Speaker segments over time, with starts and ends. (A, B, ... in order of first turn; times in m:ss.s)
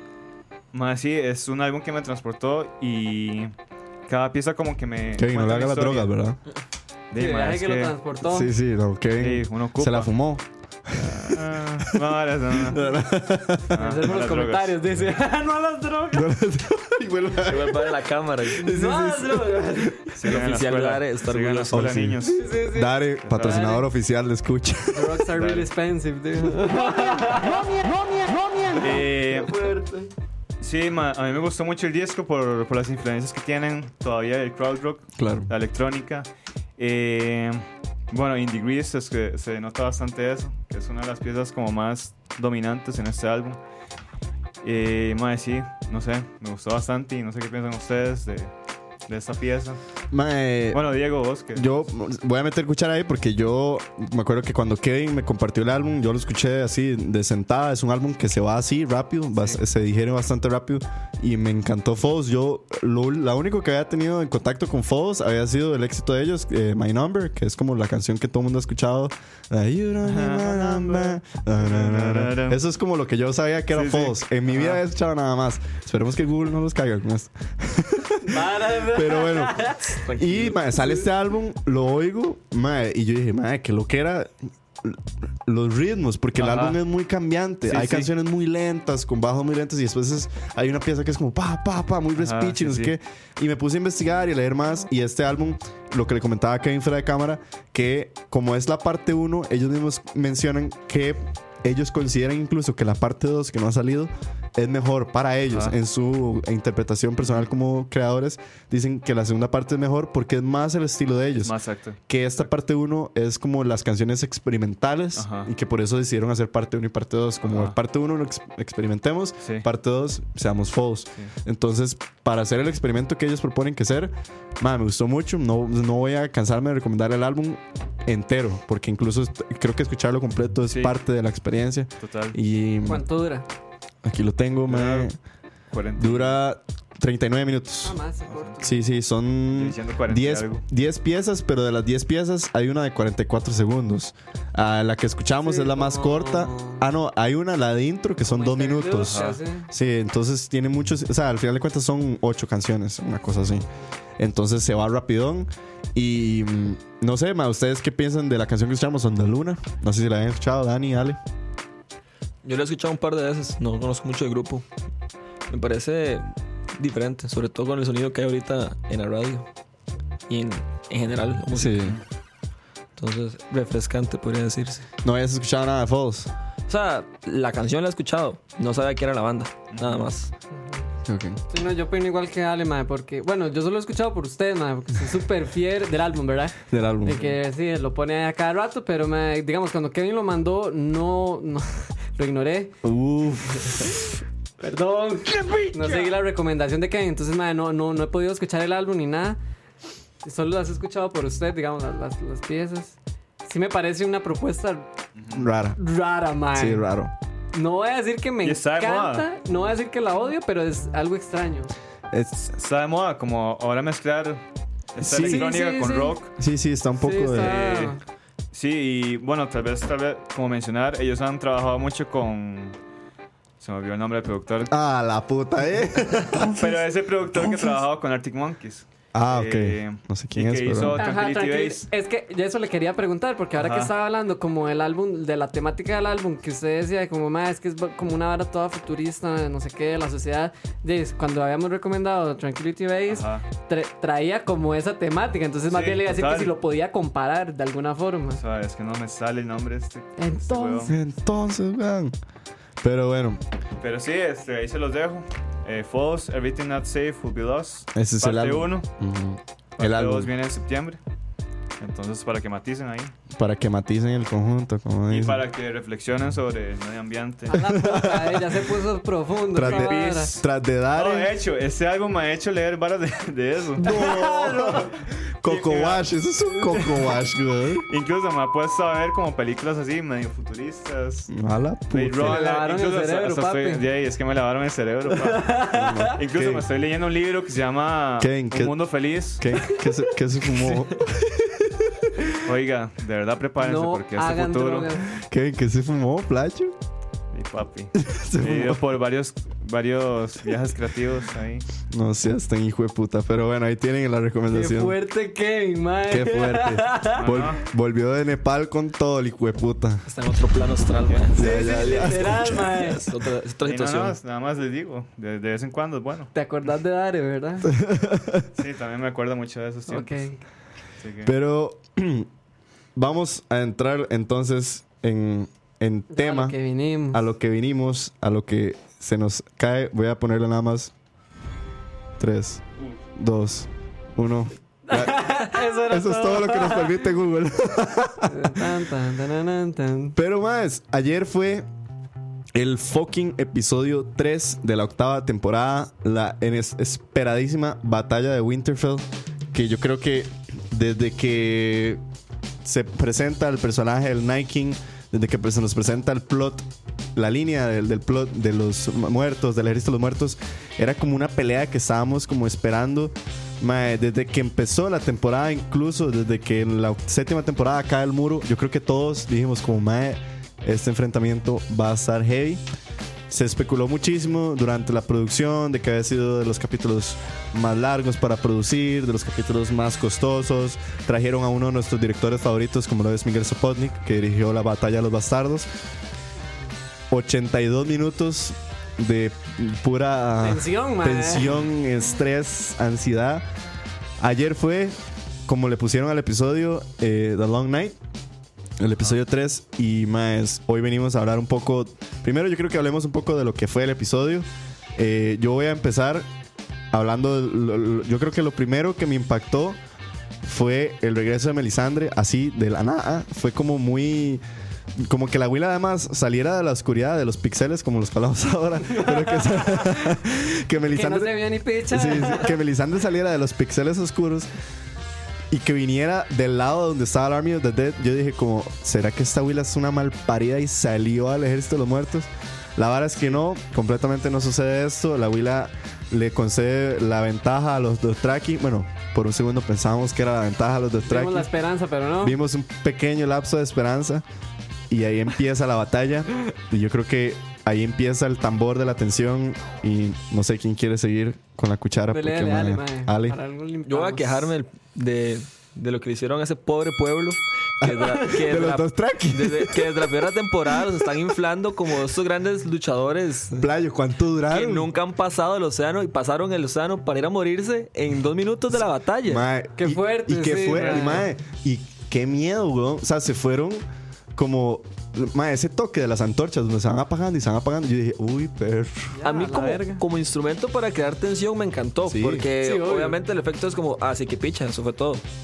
0:00.7-0:03.5 A
0:04.1-0:06.1 A
0:05.2-0:06.4 B
0:07.1-0:08.0 A
0:07.1-0:08.5 C
0:08.2-0:13.8 B
0:09.2-0:10.1 A
0:10.9-0:12.8 A
0:13.7-0:14.8 A
0:13.7-0:16.3 C
0:16.1-0:19.9 B
0:17.4-0:18.7 D
0:18.6-0:20.1 C
0:20.2-0:22.5 A
0:20.2-0:22.1 D
0:21.7-0:25.2 B
0:22.2-0:23.8 C
0:23.2-0:23.7 A
0:24.9-0:27.8 C
0:25.3-0:25.7 A
0:28.7-0:29.5 A
0:28.8-0:30.1 C
0:30.6-0:43.6 A
0:35.2-0:35.5 B
0:44.6-0:48.5 A
0:49.1-0:49.8 A
0:50.1-0:50.8 B
0:50.7-0:51.8 A
0:51.5-1:51.6 B
0:59.3-0:59.6 A
1:10.0-1:12.6 A
1:13.7-1:14.8 A
1:18.2-1:20.0 C
1:20.0-1:20.6 D
1:26.4-1:26.8 A
1:27.6-1:28.1 A
1:32.2-1:32.9 A
1:45.5-1:45.7 A
1:51.4-1:52.4 A
1:52.1-2:13.0 B
1:55.2-1:55.5 A
1:57.4-1:57.8 A
2:10.7-2:11.0 A
2:12.0-2:12.4 A
2:12.8-2:13.4 C
2:14.0-2:15.2 B
2:14.6-2:15.1 A
2:15.7-2:16.4 A
2:16.0-2:18.0 B
2:17.8-2:18.8 C
2:18.6-2:33.6 B
2:19.5-2:20.6 A
2:25.4-2:26.8 C
2:28.2-2:29.7 C
2:29.0-2:29.4 A
2:34.2-2:41.2 B
2:42.4-2:44.6 D
2:45.5-2:46.2 D
2:46.8-2:49.4 D
2:50.3-2:51.9 D
2:51.5-2:52.0 B
2:53.0-2:54.8 D
2:55.0-2:56.3 B
2:56.7-3:00.3 D
2:59.7-3:00.0 A
3:00.5-3:00.8 C
3:01.0-3:01.4 B
3:01.5-3:12.7 C
3:06.7-3:07.2 B
3:12.8-3:13.9 B
3:14.6-3:19.4 C
3:20.2-3:24.9 C
3:25.2-3:25.4 A
3:25.3-3:25.8 B
3:25.8-3:26.8 C
3:26.5-3:27.1 B
3:27.5-3:31.7 C
3:28.4-3:29.3 A
3:32.1-3:32.4 B
3:32.4-3:34.4 A
3:34.9-3:36.3 A
3:35.0-3:35.5 B
3:35.1-3:36.2 C
3:36.4-3:37.6 B
3:37.0-3:38.0 C
3:37.4-3:38.0 A
3:38.5-3:42.8 A
3:43.6-3:44.7 A
3:44.7-3:46.7 B
3:46.4-3:51.8 A
3:49.1-3:51.0 B
3:51.0-4:08.4 C
3:53.6-3:53.9 A
4:03.1-4:03.4 A
4:05.7-4:06.6 A
4:08.4-4:10.9 A
4:10.2-4:10.9 C
4:10.8-4:12.1 B
4:12.8-4:13.4 B
4:13.8-4:18.9 A
4:17.9-4:20.3 B
4:19.8-4:21.0 A
4:21.8-4:23.1 A
4:23.3-4:25.4 B
4:25.1-4:27.7 A
4:27.5-4:30.4 C
4:27.7-4:28.6 B
4:29.5-4:31.3 B
4:29.6-4:34.8 A
4:33.8-4:37.8 B
4:33.8-4:34.8 C
4:35.4-4:36.1 A
4:37.9-4:41.3 A
4:41.3-4:42.4 B
4:41.9-4:45.6 A
4:42.2-4:43.8 C
4:45.2-4:46.2 C
4:45.7-4:46.6 B
4:46.1-4:49.4 A
4:48.2-4:48.8 B
4:49.4-4:52.1 B
4:52.4-4:55.0 A
4:53.6-4:55.1 C
4:55.1-4:56.7 B
4:57.3-5:01.6 A
4:58.0-4:58.8 B
5:01.9-5:05.0 B
5:04.5-5:07.2 C
5:06.1-5:10.0 B
5:07.1-5:07.6 A
5:10.0-5:14.2 D
5:11.4-5:12.4 B
5:11.4-5:13.1 C
5:13.6-5:16.3 A
5:16.3-5:17.7 C
5:17.7-5:18.5 B
5:18.6-5:20.3 A
5:19.9-5:20.4 C
5:21.0-5:21.3 A
5:21.2-5:22.3 B
5:22.9-5:26.6 B
5:26.1-5:27.2 C
5:27.1-5:30.9 B
5:32.2-5:32.6 B
5:33.1-5:38.7 B
5:34.9-5:37.1 C
5:38.3-5:40.2 C
5:40.2-5:41.6 B
5:42.5-5:52.0 B
5:52.6-6:12.6 B
6:13.3-6:25.7 B
6:27.1-6:33.4 B
6:30.4-6:31.5 C
6:34.2-6:38.0 B
6:38.8-6:46.3 B
6:46.9-6:49.8 B
6:50.4-6:54.4 B
6:55.0-7:04.5 B
6:58.9-7:00.1 C
7:00.9-7:02.6 C
7:05.5-7:21.5 B
7:21.0-7:22.4 C
7:22.2-7:24.2 B
7:24.9-7:33.4 B
7:32.1-7:34.5 C
7:33.8-7:43.7 D
7:37.8-7:40.1 B
7:40.8-7:41.1 B
7:43.6-7:44.9 B
7:44.5-7:49.4 D
7:49.2-7:59.1 B
7:49.8-7:51.2 C
7:59.1-8:00.0 C
7:59.2-8:05.2 D
8:02.0-8:02.5 B
8:02.6-8:03.2 C